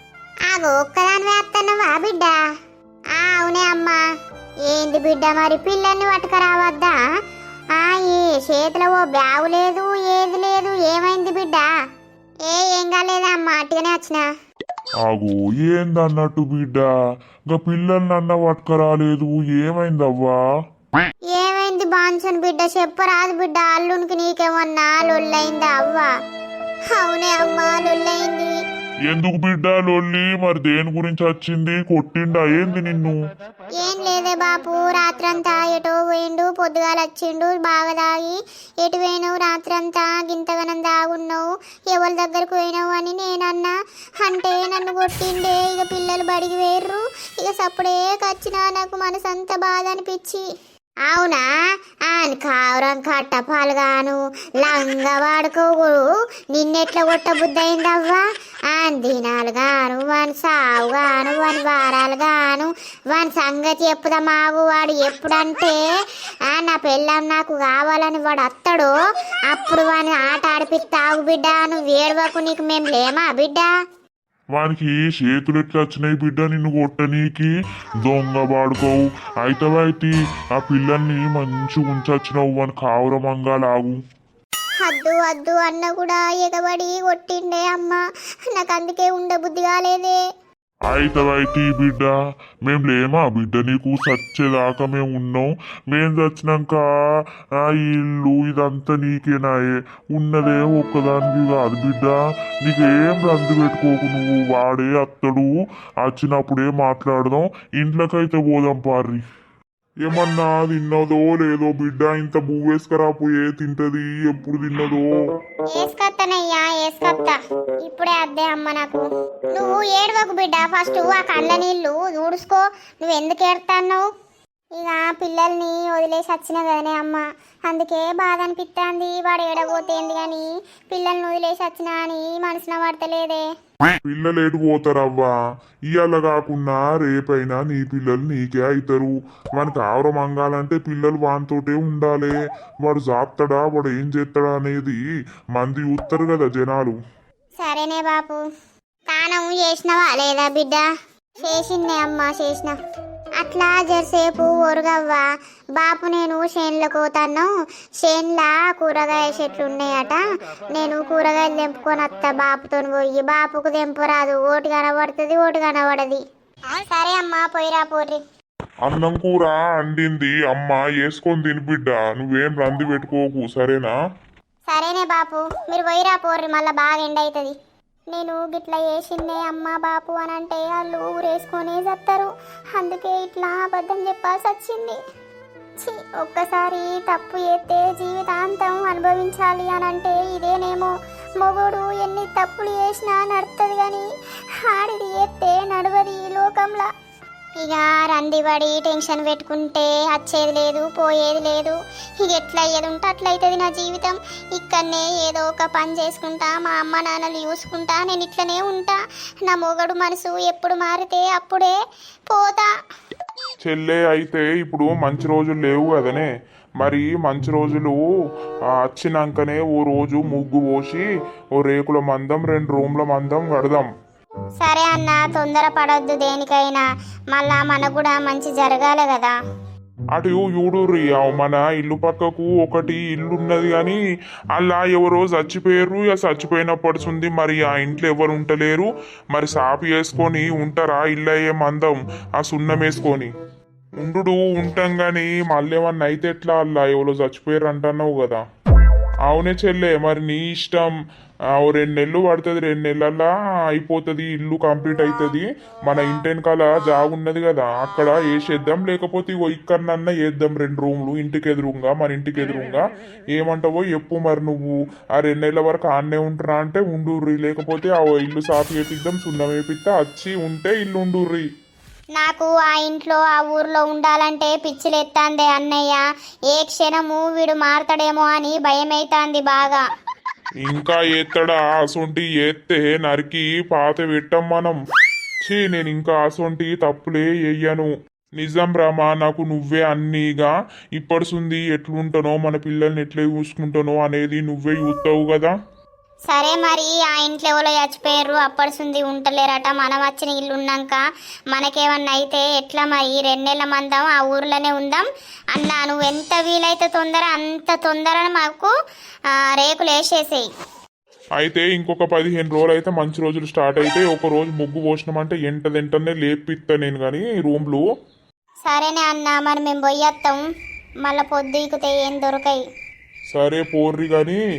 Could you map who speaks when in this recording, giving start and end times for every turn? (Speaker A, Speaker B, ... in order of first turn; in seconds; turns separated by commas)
Speaker A: 0.5-2.4, Speaker A: 3.1-4.0, Speaker A: 4.7-7.0, Speaker A: 7.8-11.7, Speaker A: 12.5-14.2, Speaker B: 15.1-16.9, Speaker B: 17.5-20.4, Speaker A: 21.3-26.1, Speaker A: 26.9-28.6, Speaker B: 29.1-33.2, Speaker A: 33.8-50.4, Speaker A: 51.1-51.4, Speaker A: 52.1-65.8, Speaker A: 66.5-68.9, Speaker A: 69.5-73.7, Speaker B: 74.5-84.0, Speaker A: 84.8-90.2, Speaker B: 90.9-92.1, Speaker B: 92.7-96.8, Speaker B: 97.6-105.5, Speaker B: 106.0-109.2, Speaker B: 110.0-115.2, Speaker A: 115.7-124.0, Speaker A: 124.8-133.4, Speaker B: 134.1-135.3, Speaker B: 135.9-145.0, Speaker B: 145.6-147.0, Speaker A: 147.6-148.4, Speaker A: 149.1-150.8, Speaker A: 151.4-152.8, Speaker A: 153.4-155.3, Speaker A: 155.8-157.5, Speaker A: 158.0-160.2, Speaker A: 160.8-166.2, Speaker A: 166.8-168.2, Speaker B: 168.9-173.9, Speaker A: 174.7-177.5, Speaker A: 178.1-185.0, Speaker A: 185.8-194.1, Speaker A: 194.7-196.9, Speaker A: 197.6-211.8, Speaker A: 212.3-212.7, Speaker C: 213.6-216.3, Speaker C: 216.8-218.0, Speaker C: 218.8-221.1, Speaker C: 221.6-223.9, Speaker A: 224.6-229.4, Speaker C: 230.2-234.0, Speaker C: 234.6-243.3, Speaker C: 244.0-248.4, Speaker C: 249.3-250.9, Speaker C: 251.6-271.5, Speaker A: 272.2-279.9, Speaker C: 280.6-284.8, Speaker C: 285.5-295.5, Speaker A: 296.3-308.7, Speaker A: 309.5-310.5, Speaker C: 311.4-317.8, Speaker A: 318.7-320.4, Speaker A: 321.0-322.6, Speaker C: 323.3-324.4